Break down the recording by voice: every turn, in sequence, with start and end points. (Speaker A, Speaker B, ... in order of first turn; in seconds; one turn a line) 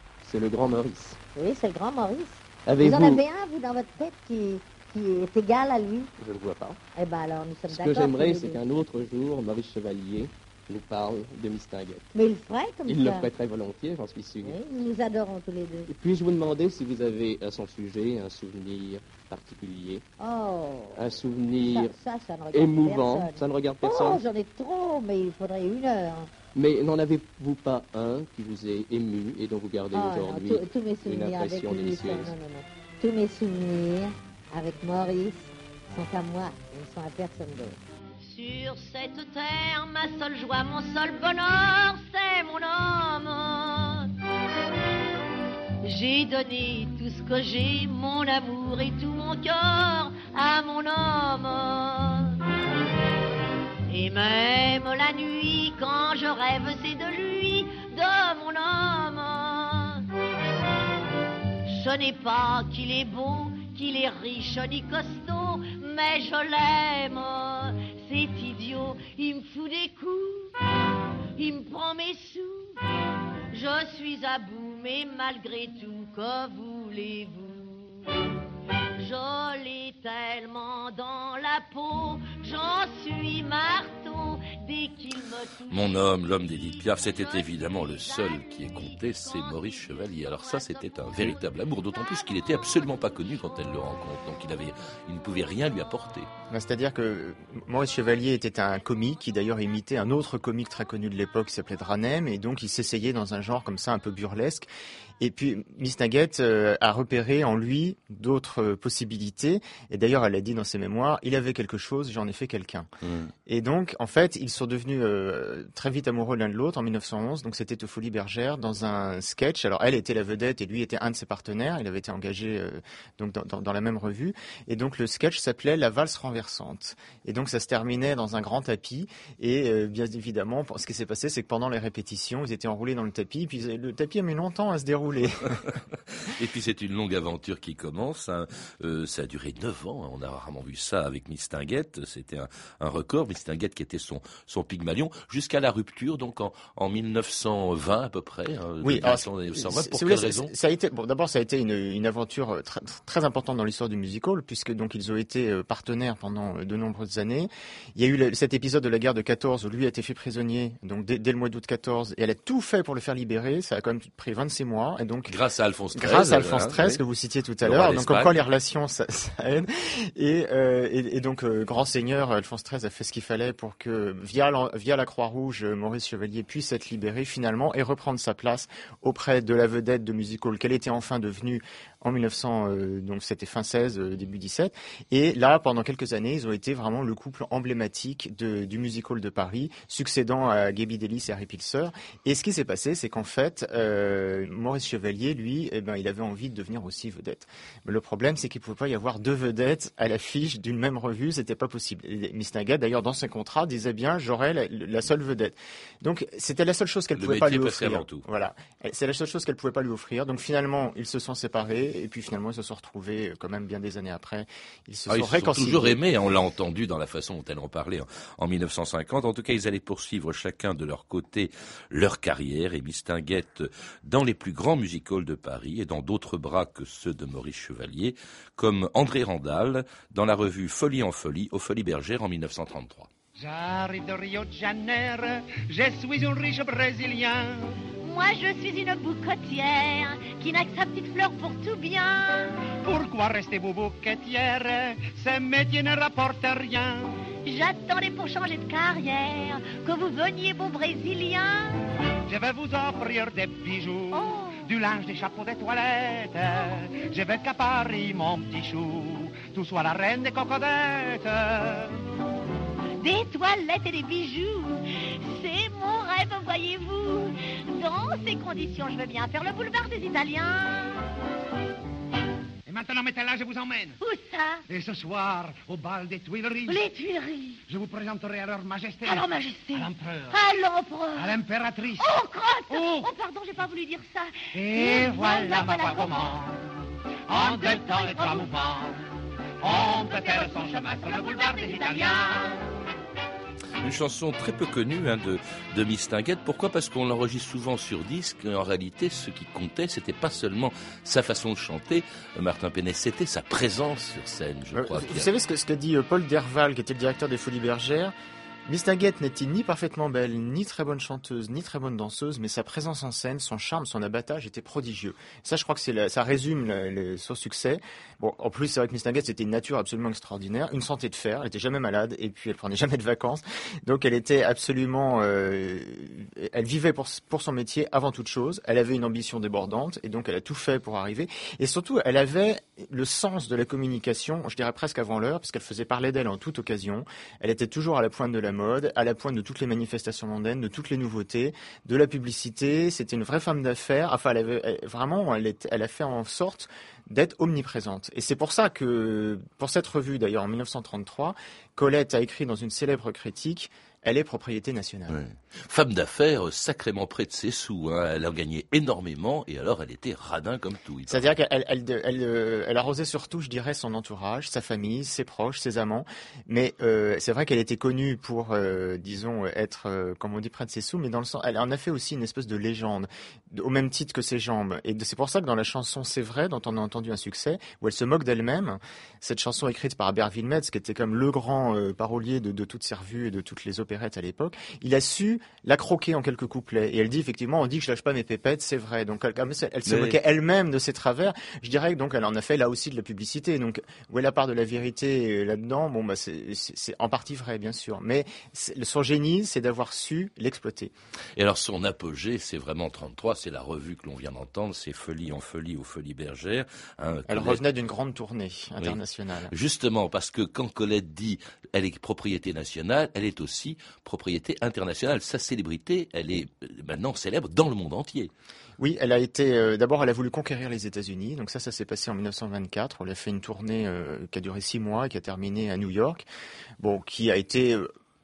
Speaker A: 0.2-1.2
Speaker B: 1.4-6.1
Speaker A: 2.7-3.2
Speaker A: 6.2-6.8
Speaker B: 7.0-8.6
Speaker A: 7.7-12.1
Speaker B: 12.1-13.3
Speaker A: 12.9-14.6
Speaker B: 14.4-15.9
Speaker A: 15.9-20.0
Speaker B: 20.2-21.0
Speaker A: 20.9-21.9
Speaker B: 21.6-26.3
Speaker A: 22.5-24.2
Speaker A: 26.6-32.3
Speaker B: 29.9-37.8
Speaker C: 38.2-44.1
Speaker C: 45.8-52.4
Speaker C: 53.9-60.1
Speaker C: 61.7-70.5
Speaker C: 71.4-72.8
Speaker C: 73.5-78.1
Speaker C: 79.0-92.6
Speaker D: 85.7-96.3
Speaker E: 96.5-104.7
Speaker E: 105.2-112.9
Speaker D: 113.0-113.3
Speaker E: 113.5-135.6
Speaker D: 136.2-150.5
Speaker E: 148.8-165.4
Speaker D: 165.3-167.0
Speaker E: 165.9-216.0
Speaker D: 167.6-168.3
Speaker D: 207.2-208.2
Speaker D: 215.1-233.1
Speaker F: 233.4-237.8
Speaker C: 238.0-242.5
Speaker F: 242.8-247.2
Speaker C: 247.4-251.8
Speaker F: 252.3-262.0
Speaker C: 254.1-254.7
Speaker C: 263.0-271.0
Speaker F: 272.7-274.0
Speaker C: 274.0-274.6
Speaker F: 274.7-276.9
Speaker C: 276.7-277.6
Speaker F: 277.7-280.4
Speaker C: 279.0-281.3
Speaker F: 281.1-282.1
Speaker C: 282.0-286.4
Speaker F: 282.7-283.1
Speaker F: 284.5-286.6
Speaker F: 287.3-289.0
Speaker C: 287.4-288.6
Speaker F: 289.6-292.6
Speaker C: 290.0-292.3
Speaker D: 293.8-305.3
Speaker E: 304.7-308.1
Speaker E: 308.7-355.2
Speaker D: 355.1-361.3
Speaker E: 361.1-400.9
Speaker D: 389.9-390.2
Speaker D: 401.4-407.6
Speaker E: 407.3-409.5
Speaker D: 409.5-418.3
Speaker E: 418.8-426.2
Speaker E: 426.8-427.9